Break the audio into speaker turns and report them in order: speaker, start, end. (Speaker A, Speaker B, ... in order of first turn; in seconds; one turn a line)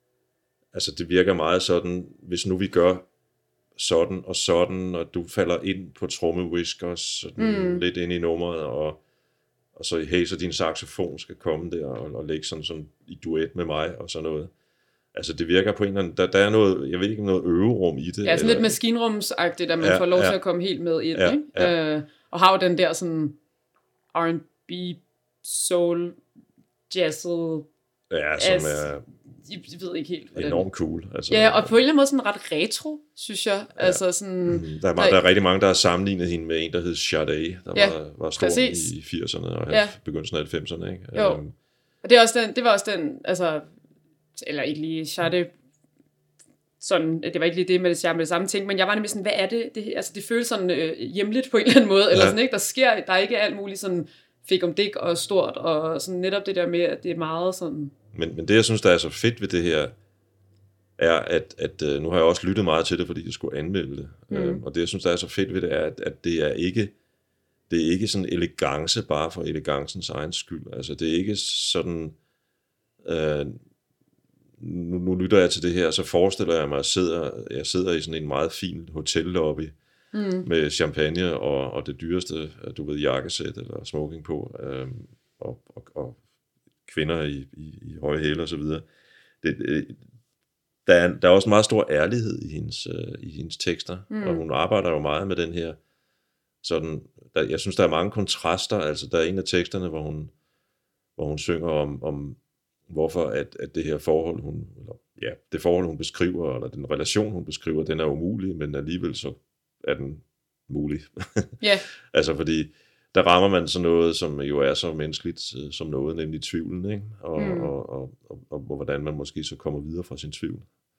Speaker A: 0.7-3.1
Speaker A: 3.8-9.0
Speaker B: 7.4-7.8
Speaker A: 9.7-14.5
Speaker A: 15.1-18.8
Speaker B: 18.2-23.4
Speaker A: 19.8-20.4
Speaker A: 21.1-21.7
Speaker B: 24.1-26.2
Speaker B: 26.9-27.7
Speaker A: 28.1-29.1
Speaker B: 28.4-30.7
Speaker A: 30.3-31.7
Speaker B: 31.3-35.2
Speaker A: 33.8-41.5
Speaker B: 37.7-38.9
Speaker B: 39.7-40.0
Speaker B: 41.1-41.4
Speaker B: 42.0-43.7
Speaker B: 44.4-45.5
Speaker B: 46.8-57.9
Speaker A: 52.1-52.4
Speaker A: 58.1-60.0
Speaker A: 61.0-66.9
Speaker B: 64.3-64.6
Speaker A: 67.7-72.2
Speaker A: 73.0-73.6
Speaker A: 74.6-79.7
Speaker B: 80.1-80.5
Speaker A: 80.4-86.2
Speaker A: 86.9-88.8
Speaker A: 89.4-90.0
Speaker A: 90.8-95.8
Speaker B: 94.1-94.4
Speaker A: 96.6-100.3
Speaker A: 101.2-120.7
Speaker B: 117.3-117.7